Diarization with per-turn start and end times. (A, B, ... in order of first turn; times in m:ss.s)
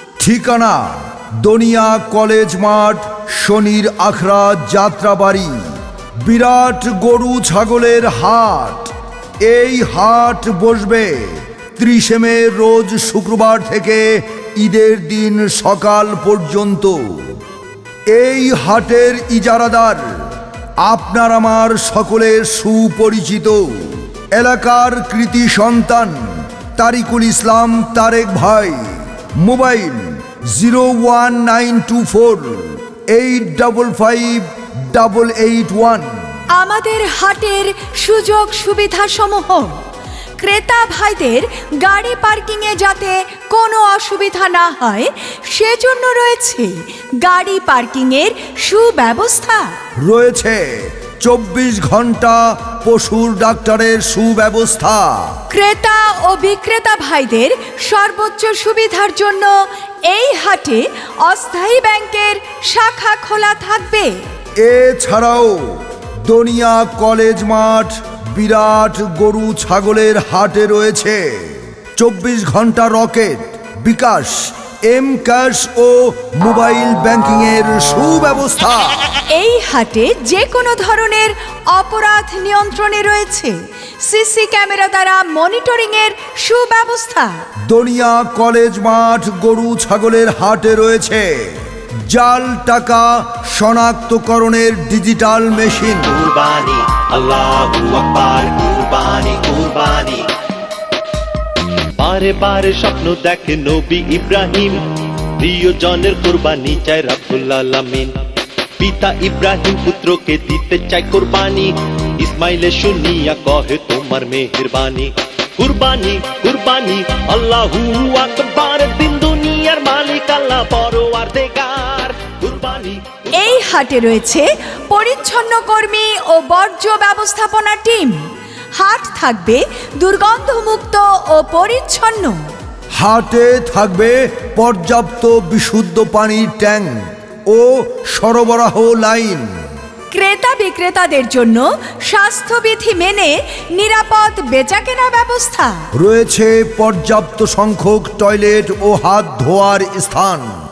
0:00.2-0:05.5 A
0:06.2-0:08.9 A
0:09.4-0:14.1 A
0:14.6-0:17.0 A
0:18.1-0:20.0 A
0:20.8-0:28.8 A
0:29.4-0:36.1 A
0:36.6-0:39.8 B
0:40.4-0:46.7 B
0:47.2-0:49.6 B
0:50.0-0:55.2 A
0:55.5-0:59.5 B
1:00.1-1:04.1 B
1:04.6-1:05.7 A
1:06.2-1:19.0 A
1:19.3-1:27.3 B
1:27.7-1:31.5 A
1:32.1-1:36.2 A
1:36.3-1:40.3 C
1:42.0-1:48.2 C
1:48.8-2:03.3 C
2:03.3-2:08.2 B
2:08.8-2:12.4 B
2:13.0-2:17.0 A
2:17.5-2:19.5 A
2:20.1-2:25.8 B
2:26.0-2:30.5 A